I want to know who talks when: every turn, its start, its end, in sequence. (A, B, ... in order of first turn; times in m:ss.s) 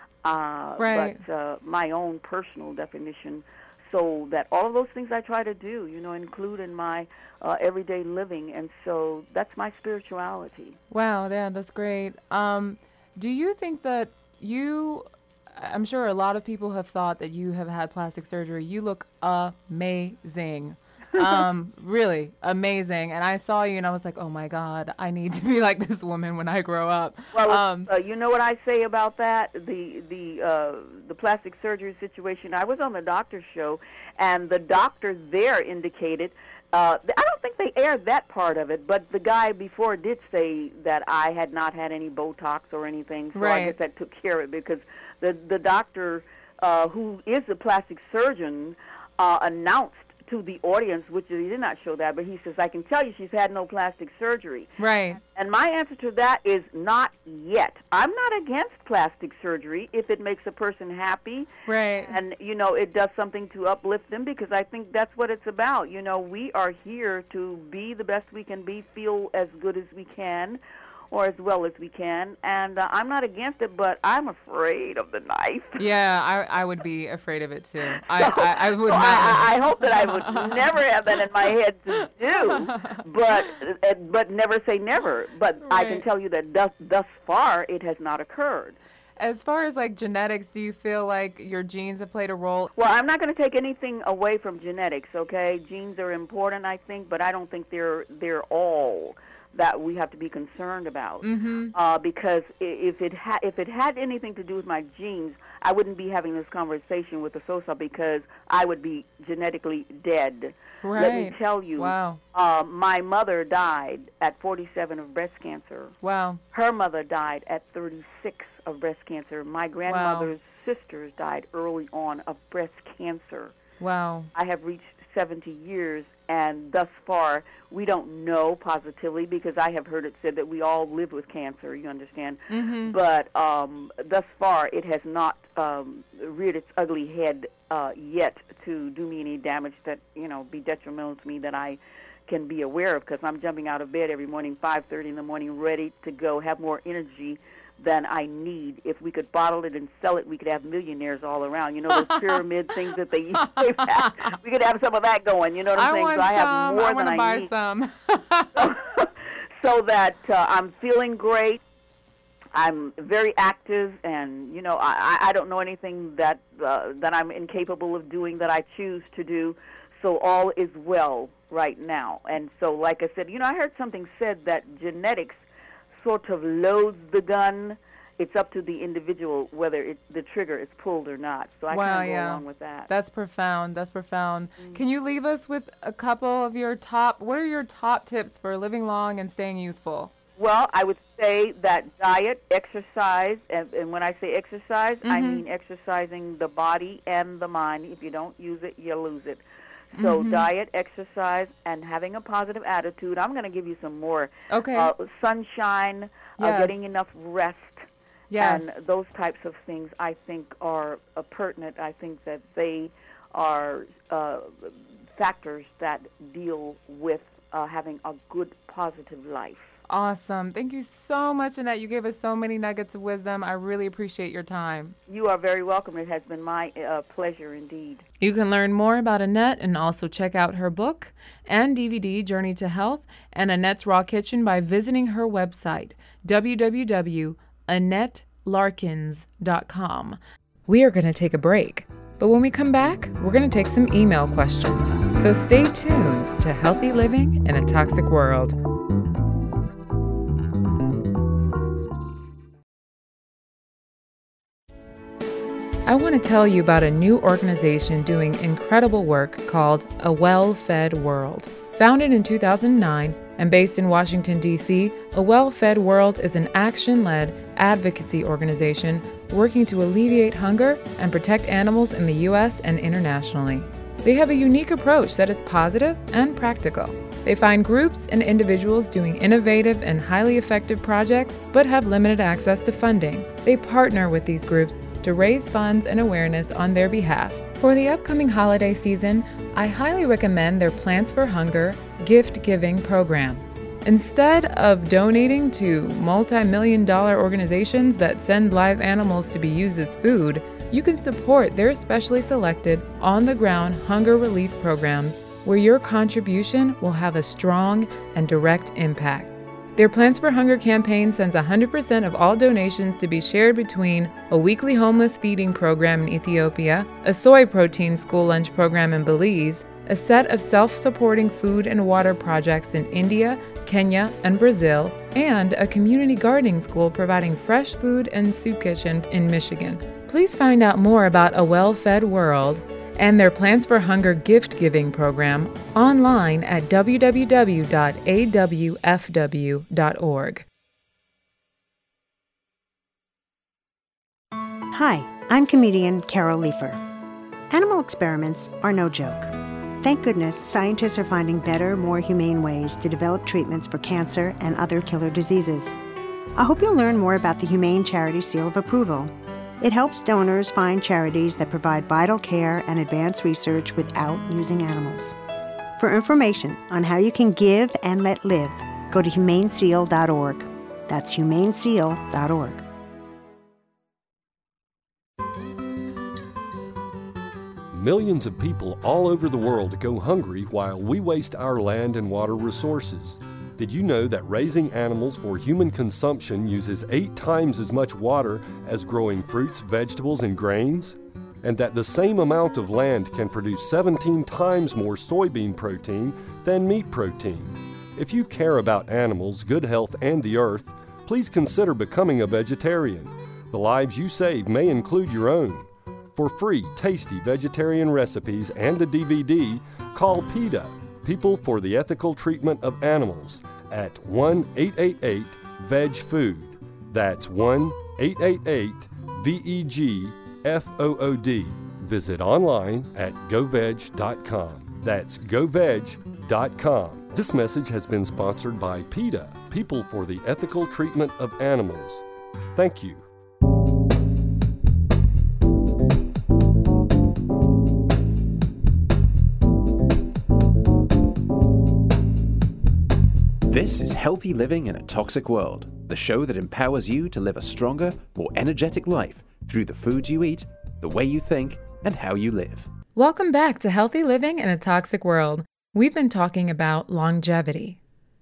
0:00.2-0:10.8 A
0:00.8-0:01.2 B
0:10.9-0:27.9 B
0:27.3-1:10.6 A
0:43.3-0:43.8 B
0:54.8-0:55.2 B
1:01.7-1:02.2 B
1:11.1-1:15.8 A
1:15.8-1:21.2 B
1:18.1-1:28.8 A
1:22.0-1:23.6 B
1:25.7-1:26.0 B
1:29.2-1:32.7 B
1:32.8-1:55.9 A
1:41.2-1:41.7 B
1:50.8-1:52.2 B
1:56.0-1:56.4 B
1:56.5-2:03.5 A
1:59.9-2:00.3 B
2:03.8-2:04.3 B
2:04.3-2:37.5 A
2:12.5-2:13.0 B
2:31.9-2:32.4 B
2:33.4-2:34.4 B
2:35.8-2:38.7 B
2:38.6-2:41.6 A
2:42.5-2:55.4 A
2:56.0-3:02.9 A
3:01.7-3:10.1 B
3:10.4-3:19.4 A
3:15.0-3:15.4 B
3:20.0-3:20.5 B
3:20.0-3:27.8 A
3:24.5-3:24.9 B
3:26.4-3:26.8 B
3:28.3-3:28.8 B
3:28.4-3:39.8 A
3:39.9-3:45.0 B
3:45.1-3:48.0 A
3:48.2-4:08.6 B
4:15.9-5:40.5 B
5:44.7-5:46.8 C
5:47.5-5:55.8 C
5:56.4-6:05.2 C
6:05.8-6:12.6 C
6:17.7-7:12.0 D
7:12.6-7:13.0 D
7:23.5-7:32.7 E
7:33.0-7:37.8 B